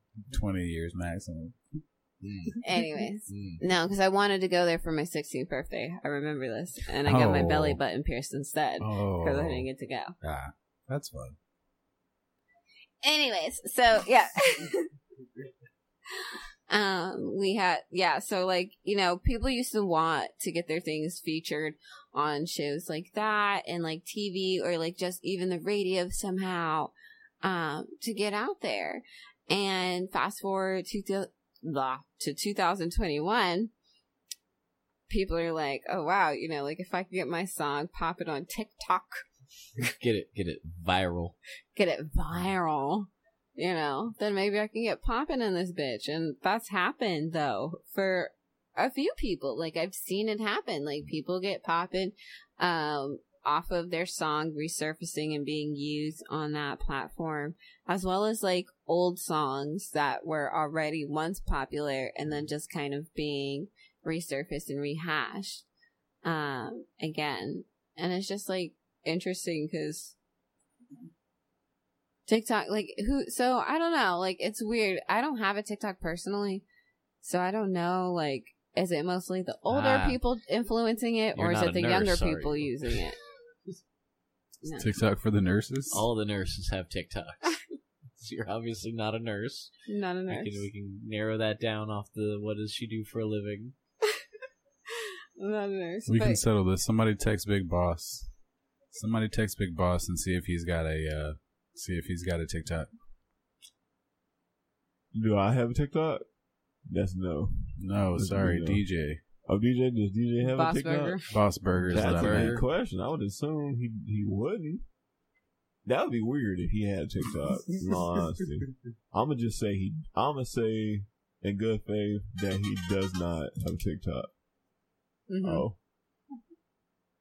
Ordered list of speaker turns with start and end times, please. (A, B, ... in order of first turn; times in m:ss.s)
0:00.3-0:01.6 A
0:02.2-0:02.6 B
0:02.6-0:10.1 C
0:03.3-0:03.6 B
0:07.0-0:07.8 A
0:08.8-0:09.6 A
0:10.2-0:11.4 A
0:13.0-0:14.9 C
0:16.2-0:26.9 C
0:27.4-0:33.7 C
0:35.1-0:39.2 C
0:40.0-0:41.3 B
0:41.8-1:05.6 C
1:06.2-1:10.2 C
1:12.3-1:16.6 C
1:17.2-1:23.2 C
1:19.7-1:20.2 B
1:21.3-1:23.0 B
1:24.6-1:24.9 C
1:24.7-1:26.0 A
1:25.9-1:27.6 B
1:28.2-1:29.7 B
1:29.9-1:30.7 C
1:30.3-1:33.7 B
1:35.0-1:36.4 C
1:36.1-1:38.3 A
1:38.9-1:42.9 A
1:45.1-1:46.2 D
1:46.9-1:48.8 D
1:47.8-1:49.2 A
1:49.4-1:51.2 D
1:50.4-1:51.3 C
1:51.3-1:52.6 A
1:51.8-1:54.8 D
1:51.9-1:52.6 B
1:55.8-2:04.3 D
2:05.3-2:05.7 C
2:05.4-2:05.8 D